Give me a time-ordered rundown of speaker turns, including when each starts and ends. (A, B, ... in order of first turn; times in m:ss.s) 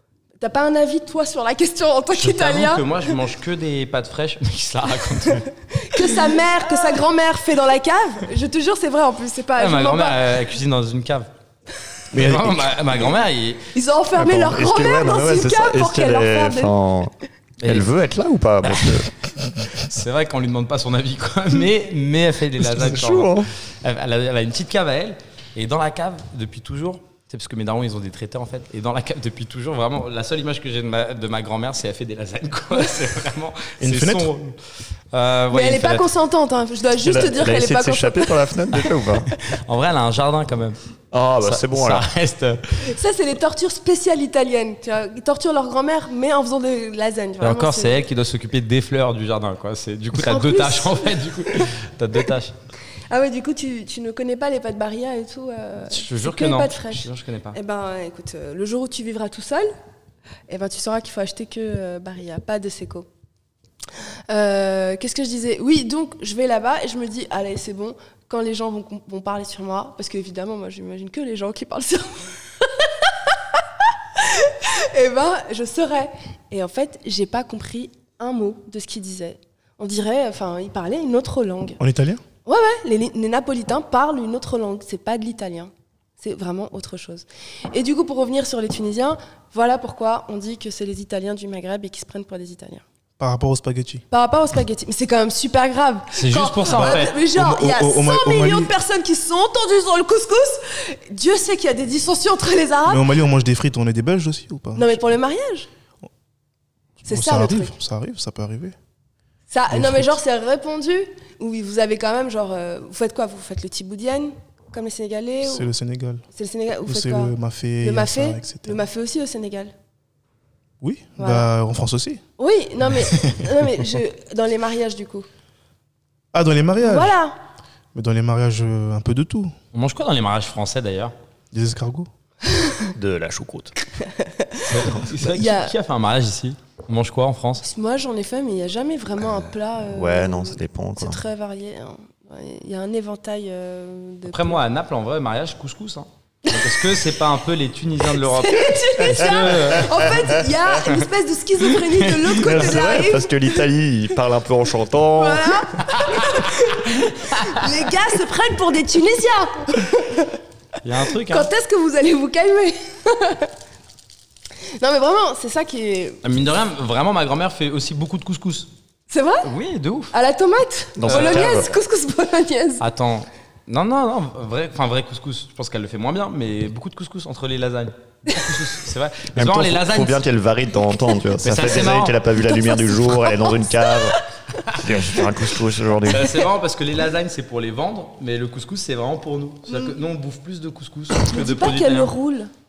0:00.4-0:03.2 A
0:02.1-0:06.0 B
0:05.3-0:10.2 A
0:09.6-0:11.3 B
0:12.1-0:13.0 C
0:12.1-0:13.6 B
0:13.7-0:16.7 A
0:14.1-0:17.1 D
0:17.6-0:17.9 B
0:17.6-0:19.8 D
0:18.6-0:19.1 B
0:19.7-0:36.1 B
0:22.6-0:23.5 D
0:33.8-0:34.3 C
0:35.5-0:38.5 A
0:37.0-0:39.3 D
0:39.4-0:40.8 B
0:41.1-0:42.0 D
0:41.4-0:42.8 B
0:42.8-0:48.0 A
0:47.4-0:52.5 B
0:50.1-0:51.7 A
0:53.1-0:59.7 A
0:55.9-0:57.6 B
1:00.5-1:03.1 A
1:04.3-1:21.8 A
1:21.8-1:22.2 C
1:22.4-1:32.8 A
1:33.2-1:34.0 C
1:34.1-1:43.1 A
1:36.1-1:37.1 B
1:36.7-1:38.7 C
1:42.9-1:45.0 C
1:44.7-1:45.7 A
1:47.0-1:48.8 C
1:47.1-1:47.7 A
1:49.5-1:55.7 A
1:49.7-1:50.2 C
1:55.4-1:56.2 C
1:56.3-1:59.7 A
1:56.9-1:58.8 C
2:00.8-2:02.2 C
2:01.2-2:01.5 A
2:02.4-2:05.2 A
2:03.1-2:03.4 C
2:06.3-2:07.1 C
2:06.8-2:07.4 A
2:07.9-2:09.5 C
2:09.7-2:11.1 B
2:11.5-2:12.1 C
2:12.4-2:12.9 A
2:12.9-2:13.7 D
2:14.0-2:15.7 A
2:14.6-2:17.6 B
2:17.6-2:24.6 A
2:19.8-2:21.2 D
2:24.3-2:30.2 B
2:26.4-2:26.8 A
2:28.2-2:33.6 A
2:29.1-2:30.2 D
2:31.8-2:32.5 B
2:32.3-2:35.9 D
2:35.2-2:40.4 A
2:36.0-2:36.2 B
2:40.8-2:41.5 B
2:41.3-2:43.5 A
2:44.8-2:46.2 A
2:46.2-2:48.7 B
2:49.1-2:49.5 A
2:49.4-2:50.1 B
2:50.1-2:52.8 A
2:51.0-2:51.8 D
2:51.0-2:51.7 B
2:52.8-3:00.2 B
2:58.3-2:58.6 A
2:59.4-3:06.4 D
3:01.4-3:02.2 B
3:02.4-3:05.2 A
3:06.0-3:12.1 B
3:11.2-3:12.5 A